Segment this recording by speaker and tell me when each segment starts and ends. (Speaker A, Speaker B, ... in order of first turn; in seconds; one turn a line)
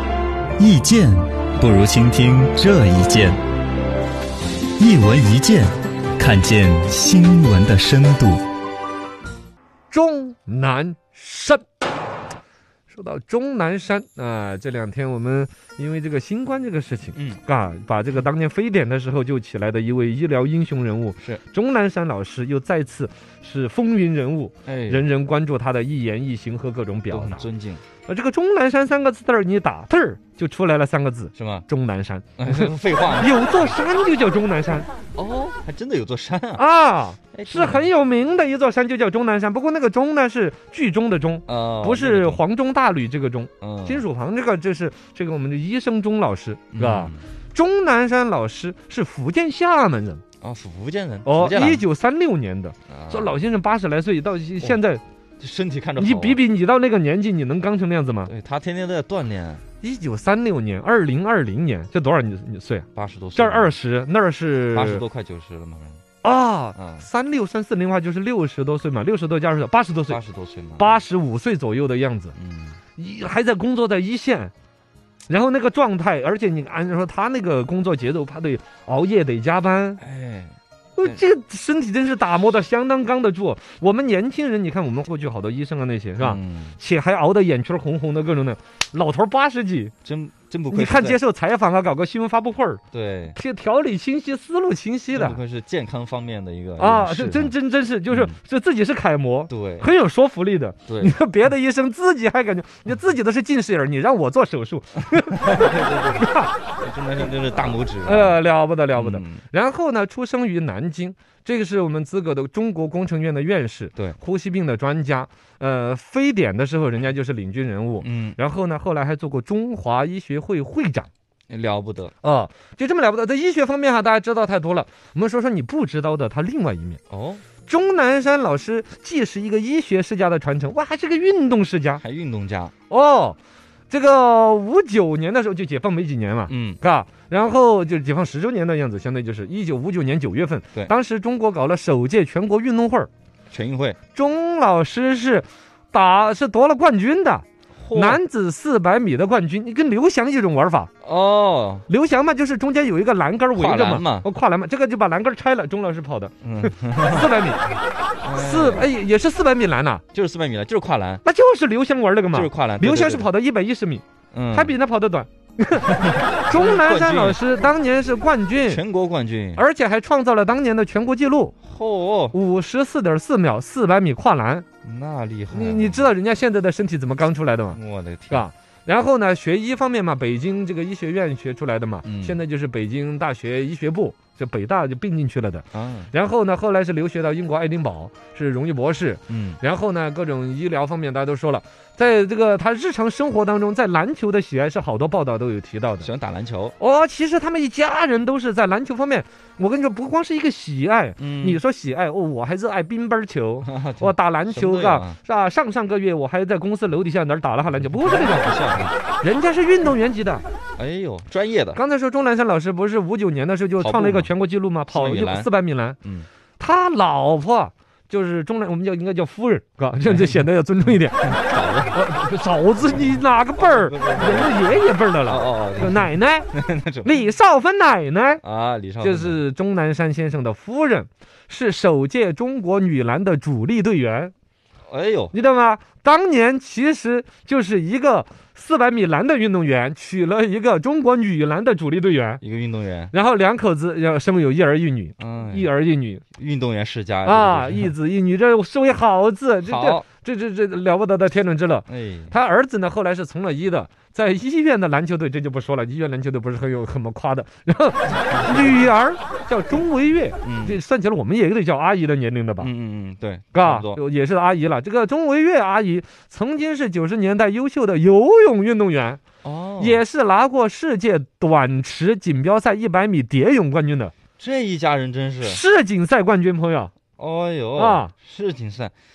Speaker A: 0.6-3.4
Speaker A: 4.8-8.4
Speaker B: 9.9-11.6
Speaker B: 12.9-27.5
Speaker A: 17.1-17.4
Speaker A: 24.6-25.0
Speaker A: 27.1-27.8
Speaker B: 28.1-34.9
Speaker A: 31.3-31.6
Speaker A: 32.4-33.4
Speaker A: 35.1-36.6
Speaker B: 36.5-50.2
Speaker A: 37.3-37.9
Speaker A: 41.5-42.4
Speaker A: 43.6-44.0
Speaker A: 46.7-47.2
Speaker A: 50.4-51.8
Speaker B: 51.2-55.0
Speaker A: 52.9-53.3
Speaker A: 55.4-56.4
Speaker B: 56.0-58.3
Speaker A: 58.2-59.6
Speaker B: 59.8-65.0
Speaker A: 62.9-63.8
Speaker A: 64.7-66.0
Speaker B: 66.2-70.2
Speaker A: 66.7-67.1
Speaker A: 70.1-71.0
Speaker B: 70.8-72.3
Speaker A: 72.3-72.8
Speaker B: 73.0-74.5
Speaker B: 75.3-80.0
Speaker A: 80.0-81.2
Speaker B: 81.0-89.9
Speaker A: 86.2-86.8
Speaker A: 90.0-91.2
Speaker B: 90.7-92.8
Speaker A: 92.9-93.4
Speaker B: 93.3-95.4
Speaker A: 95.1-97.5
Speaker B: 96.8-106.5
Speaker A: 98.1-98.4
Speaker A: 99.5-99.9
Speaker A: 100.9-101.1
Speaker A: 105.4-106.3
Speaker A: 106.8-108.4
Speaker B: 108.0-121.1
Speaker A: 108.9-109.4
Speaker A: 118.0-118.4
Speaker A: 121.5-122.1
Speaker B: 122.2-127.0
Speaker A: 127.1-127.4
Speaker B: 127.7-132.0
Speaker A: 132.0-132.7
Speaker B: 132.9-133.4
Speaker B: 133.9-143.1
Speaker A: 136.5-136.8
Speaker A: 143.5-144.0
Speaker B: 144.1-150.9
Speaker A: 147.8-148.2
Speaker A: 151.0-151.9
Speaker B: 151.9-157.6
Speaker A: 153.5-154.3
Speaker A: 156.4-157.3
Speaker A: 158.2-158.9
Speaker B: 158.3-160.0
Speaker A: 160.1-161.2
Speaker B: 161.2-165.9
Speaker A: 162.3-163.3
Speaker A: 164.3-164.8
Speaker A: 165.8-167.4
Speaker B: 166.4-168.8
Speaker A: 168.7-169.6
Speaker B: 169.6-171.5
Speaker A: 171.6-172.3
Speaker B: 172.3-174.7
Speaker A: 174.8-176.1
Speaker B: 175.5-177.8
Speaker A: 177.7-178.5
Speaker B: 178.3-196.1
Speaker A: 182.0-182.4
Speaker A: 185.7-186.1
Speaker A: 189.3-189.6
Speaker A: 196.0-196.7
Speaker B: 196.8-208.6
Speaker A: 201.2-201.6
Speaker A: 203.6-205.2
Speaker A: 207.8-208.9
Speaker B: 209.2-210.4
Speaker A: 210.8-211.8
Speaker B: 211.8-216.0
Speaker A: 213.8-214.3
Speaker A: 214.9-215.5
Speaker B: 216.6-221.4
Speaker A: 220.1-220.4
Speaker A: 221.3-222.0
Speaker B: 221.9-226.5
Speaker A: 223.6-227.1
Speaker B: 227.0-228.4
Speaker A: 228.4-229.4
Speaker B: 229.0-234.3
Speaker A: 234.9-235.3
Speaker B: 235.3-242.4
Speaker A: 242.4-243.1
Speaker B: 243.1-246.2
Speaker A: 245.2-245.7
Speaker A: 246.3-247.9
Speaker B: 247.2-262.7
Speaker A: 249.6-250.0
Speaker A: 251.9-252.3
Speaker A: 258.2-258.9
Speaker A: 260.4-260.8
Speaker A: 262.6-264.0
Speaker B: 263.5-269.2
Speaker A: 269.4-270.0
Speaker B: 269.8-274.1
Speaker A: 274.4-275.6
Speaker B: 275.4-276.9
Speaker A: 277.2-278.9
Speaker B: 277.8-278.1